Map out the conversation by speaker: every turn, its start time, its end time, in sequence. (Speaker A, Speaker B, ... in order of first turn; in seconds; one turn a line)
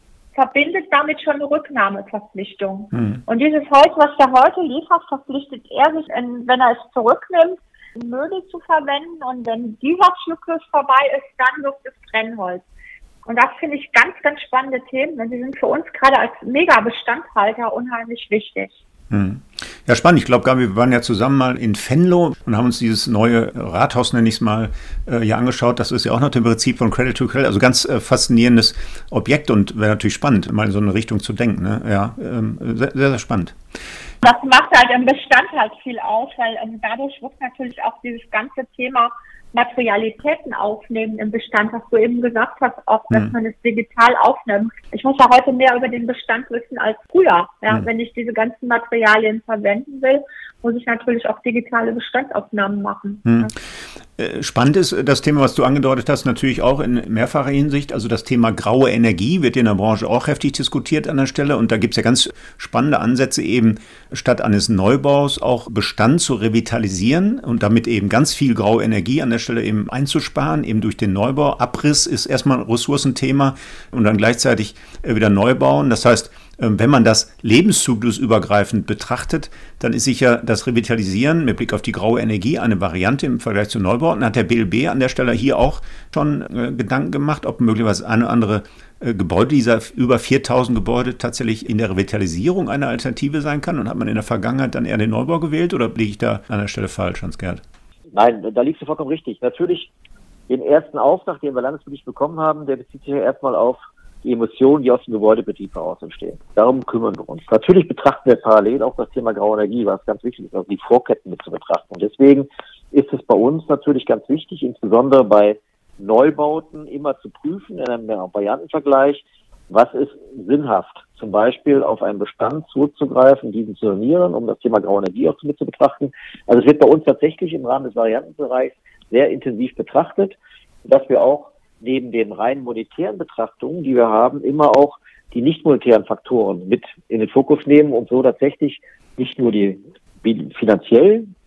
Speaker A: 0.3-12.7
Speaker B: 2.9-3.2
Speaker A: 13.3-18.8
Speaker B: 19.1-33.6
Speaker A: 34.2-53.5
Speaker B: 53.3-53.5
Speaker B: 54.2-97.6
Speaker C: 98.1-99.9
Speaker C: 100.5-141.3